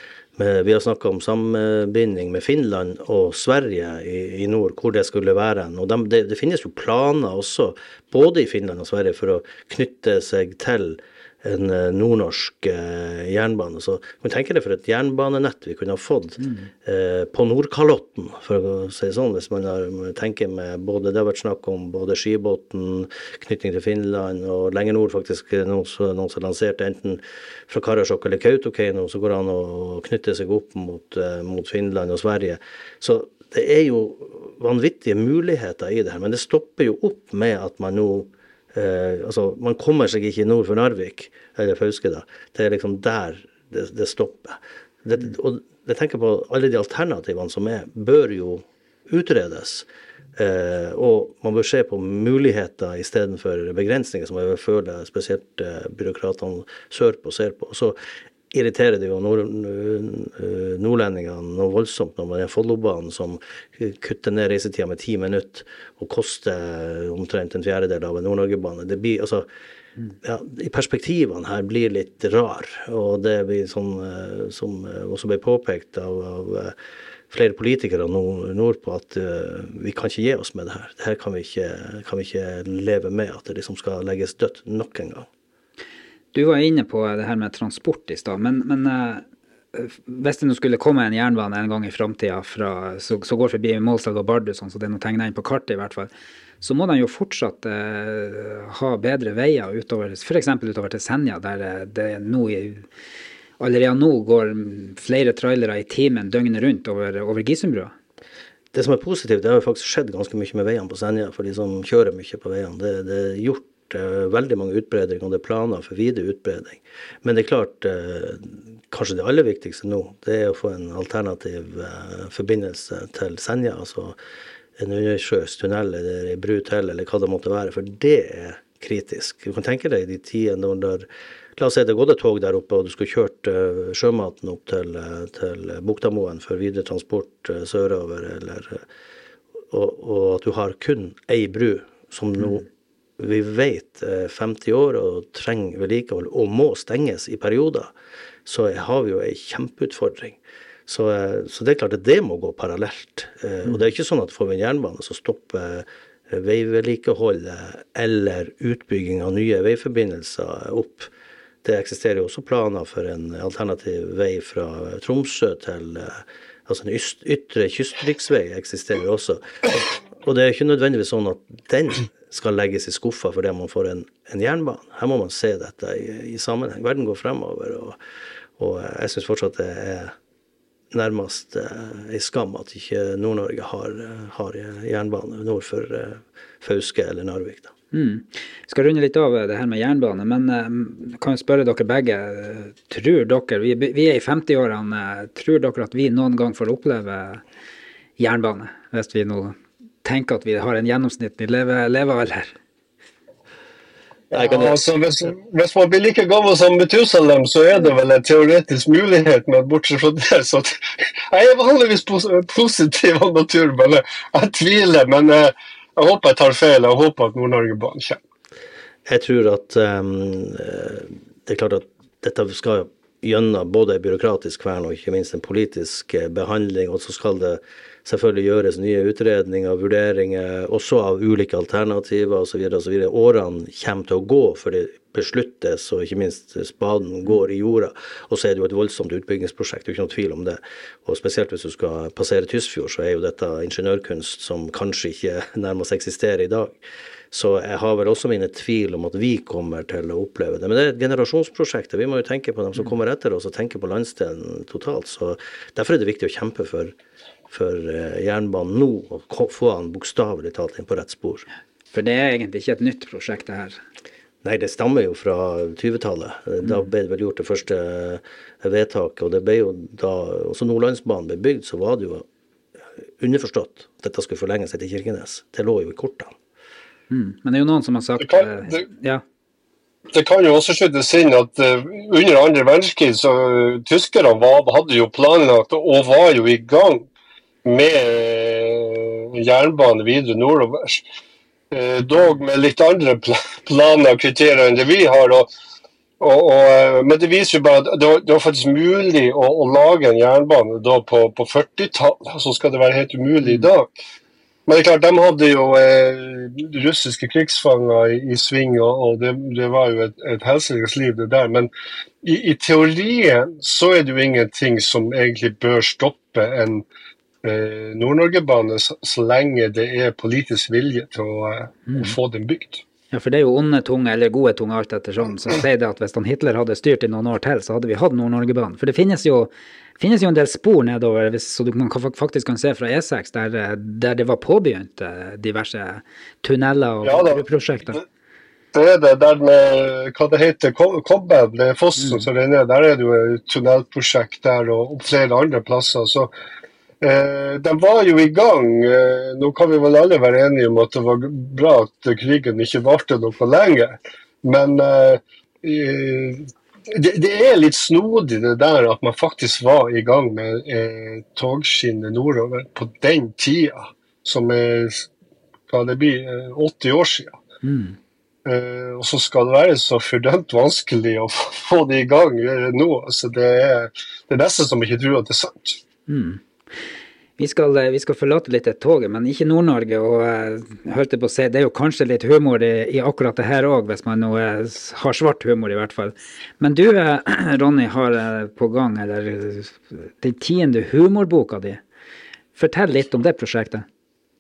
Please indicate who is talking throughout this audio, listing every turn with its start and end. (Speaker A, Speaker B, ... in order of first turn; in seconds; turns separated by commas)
Speaker A: 0.4-58.0, Speaker B: 16.4-16.7, Speaker A: 58.5-69.5, Speaker A: 70.2-76.7, Speaker A: 77.3-85.3, Speaker B: 86.3-102.8, Speaker B: 103.6-107.9, Speaker A: 108.7-124.2, Speaker A: 124.8-131.1, Speaker A: 131.6-138.8, Speaker A: 139.7-142.7, Speaker A: 143.2-147.9, Speaker A: 148.5-161.1, Speaker A: 161.6-178.0, Speaker A: 178.6-180.1, Speaker A: 180.9-187.7, Speaker B: 187.9-197.4, Speaker B: 198.2-202.5, Speaker A: 204.3-204.8, Speaker C: 204.4-218.2, Speaker A: 219.1-246.8, Speaker A: 247.3-256.9, Speaker A: 257.5-261.5, Speaker B: 261.9-263.8, Speaker A: 264.4-272.3, Speaker A: 273.2-276.3, Speaker B: 277.1-279.2, Speaker C: 278.2-278.9, Speaker C: 280.1-287.1, Speaker C: 287.6-291.0, Speaker C: 291.7-295.5, Speaker C: 296.2-303.9, Speaker C: 304.7-311.7, Speaker C: 312.2-316.8, Speaker C: 317.4-322.8, Speaker B: 321.9-322.2, Speaker B: 323.1-338.0, Speaker C: 337.0-337.4, Speaker C: 338.7-346.3, Speaker B: 342.0-342.3, Speaker C: 347.0-365.1, Speaker C: 365.7-367.4, Speaker B: 367.6-368.0, Speaker C: 368.4-375.8, Speaker B: 376.1-376.4, Speaker B: 377.4-391.8, Speaker B: 392.6-393.9